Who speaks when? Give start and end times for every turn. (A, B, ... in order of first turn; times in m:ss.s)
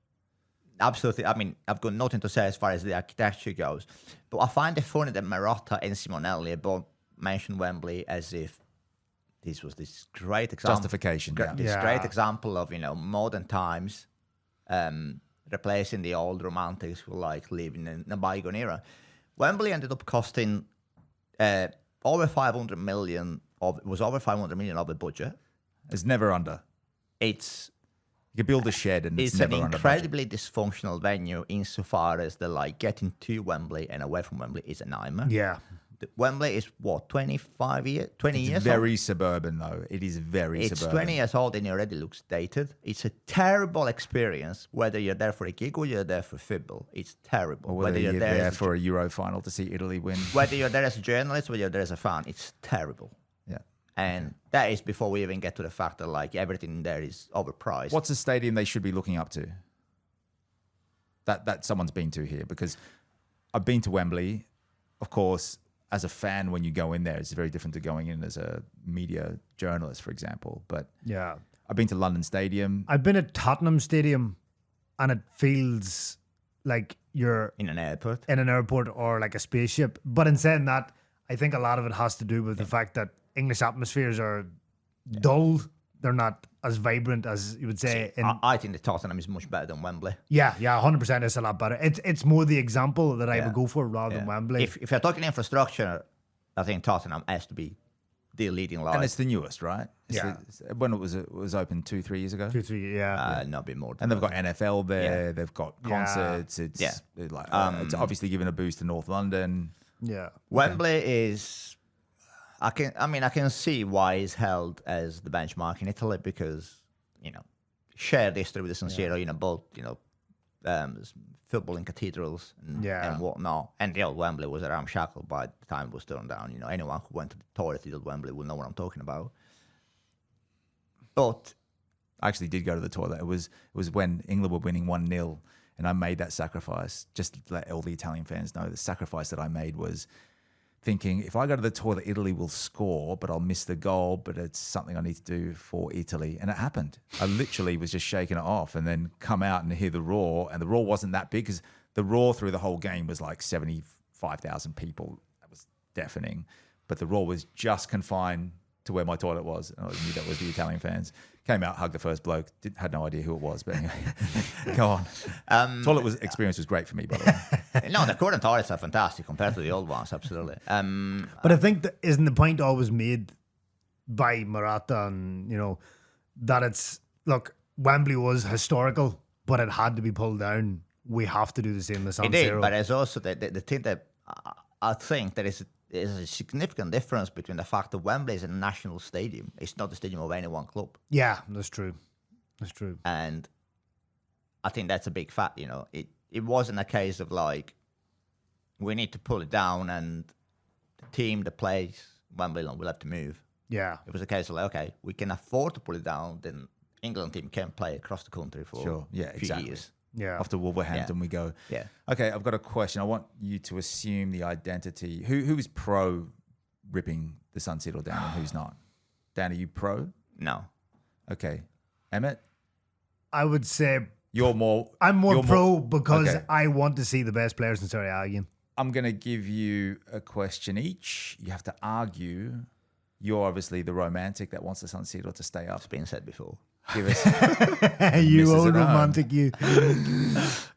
0:00.8-0:08.6 A
0:09.4-0:14.1 A
0:10.6-0:11.6 B
0:11.6-0:12.1 C
0:14.7-0:18.8 A
0:19.4-0:20.6 A
0:21.4-0:25.4 A
0:25.9-0:26.6 B
0:27.2-0:27.7 A
0:28.3-0:30.1 B
0:29.2-0:35.3 A
0:35.2-0:35.6 C
0:36.0-0:38.8 A
0:38.3-0:41.2 B
0:40.6-0:48.7 A
0:47.7-0:50.4 B
0:50.3-0:53.1 A
0:54.0-0:58.0 A
0:57.9-0:59.5 B
1:01.2-1:02.8 B
1:03.5-1:04.4 B
1:05.0-1:10.9 B
1:11.0-1:11.4 C
1:11.7-1:12.9 B
1:12.9-1:14.4 C
1:15.0-1:17.5 C
1:17.6-1:18.2 A
1:18.3-1:24.5 C
1:25.1-1:28.4 C
1:27.8-1:30.2 A
1:30.3-1:34.7 C
1:34.1-1:36.0 A
1:36.6-1:37.8 A
1:38.3-1:39.1 A
1:38.9-1:42.6 B
1:40.1-1:40.4 C
1:42.5-1:43.2 C
1:43.1-1:44.4 A
1:44.0-1:49.7 B
1:45.0-1:45.2 A
1:45.8-1:46.4 C
1:46.8-1:48.1 A
1:50.0-1:50.3 C
1:50.5-1:51.8 A
1:52.6-1:57.4 A
1:57.9-2:00.0 A
2:00.6-2:09.3 A
2:02.8-2:03.2 C
2:11.1-2:11.5 A
2:12.2-2:20.0 B
2:20.8-2:47.4 B
2:45.4-2:46.1 A
2:47.8-2:51.6 A
2:51.4-2:53.3 C
2:54.1-2:55.8 C
2:56.4-3:02.7 C
3:02.2-3:11.0 A
3:11.1-3:12.0 C
3:12.6-3:13.0 C
3:13.0-3:13.5 A
3:14.6-3:17.7 A
3:18.8-3:20.3 A
3:21.1-3:23.4 A
3:23.7-3:24.0 C
3:24.0-3:29.9 A
3:28.8-3:29.8 B
3:30.1-3:30.4 C
3:30.4-3:31.5 B
3:32.0-3:36.3 B
3:36.9-3:38.8 B
3:39.3-3:40.1 B
3:40.4-3:40.7 A
3:41.3-3:42.4 B
3:43.3-3:44.1 C
3:44.3-3:46.4 B
3:45.0-3:48.5 C
3:48.8-3:52.6 B
3:53.2-3:55.8 B
3:55.8-3:56.6 A
3:56.9-4:00.4 B
3:57.2-4:00.1 C